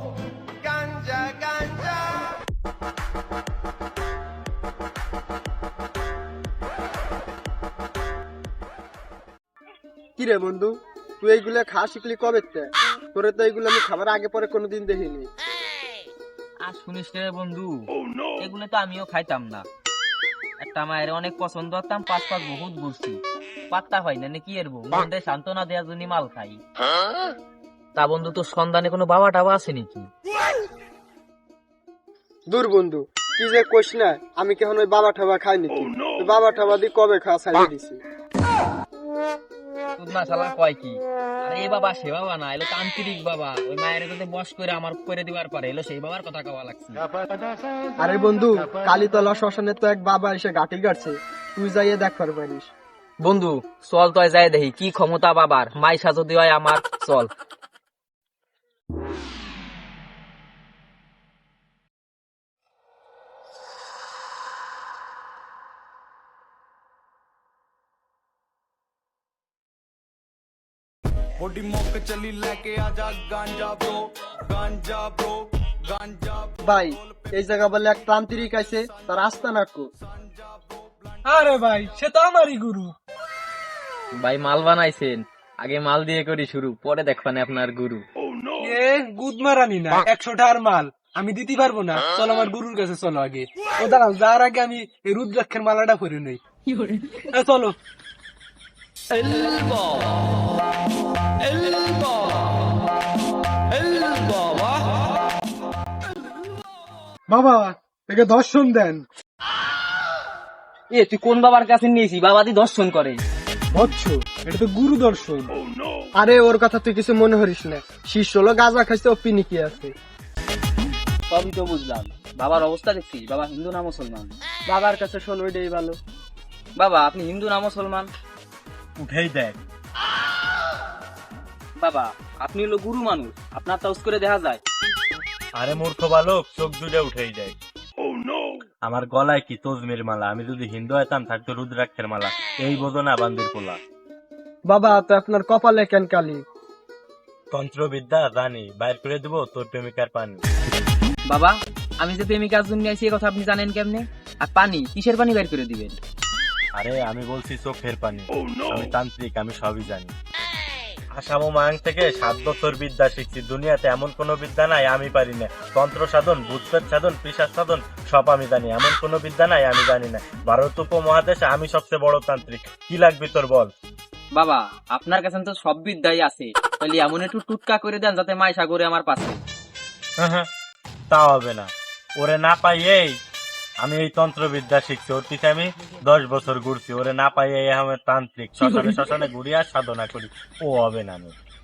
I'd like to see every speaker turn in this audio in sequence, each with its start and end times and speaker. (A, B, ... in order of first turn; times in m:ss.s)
0:00.6-0:02.0 A
0:10.2-0:15.3 B
0:16.6-0:17.8 C
0:18.4-0:19.7 C
0:20.6-0:26.6 C
0:28.0-0:30.1 C
0:32.5-0:38.0 B
0:40.0-0:47.0 C
0:48.0-0:52.7 B
0:53.2-0:57.3 C
1:11.4-1:16.5 A
1:13.9-1:14.5 D
1:16.6-1:19.9 B
1:21.2-1:22.9 D
1:24.2-1:28.0 C
1:28.6-1:36.4 D
1:37.3-1:37.8 D
1:39.2-1:40.1 D
1:41.4-1:42.3 D
1:43.8-1:44.7 C
1:43.9-1:44.4 D
1:47.3-1:49.0 D
1:50.9-1:53.2 C
1:53.7-1:55.5 D
1:56.2-1:59.9 B
2:01.3-2:04.4 C
2:04.7-2:06.0 B
2:06.8-2:08.1 C
2:09.0-2:09.6 E
2:11.8-2:14.6 C
2:15.6-2:17.6 E
2:18.8-2:23.8 E
2:24.6-2:26.4 B
2:27.5-2:30.4 E
2:31.3-2:36.0 C
2:36.8-2:40.1 E
2:41.2-2:53.7 E
2:54.3-2:59.4 C
3:00.2-3:00.5 E
3:01.1-3:03.1 E
3:03.8-3:11.3 E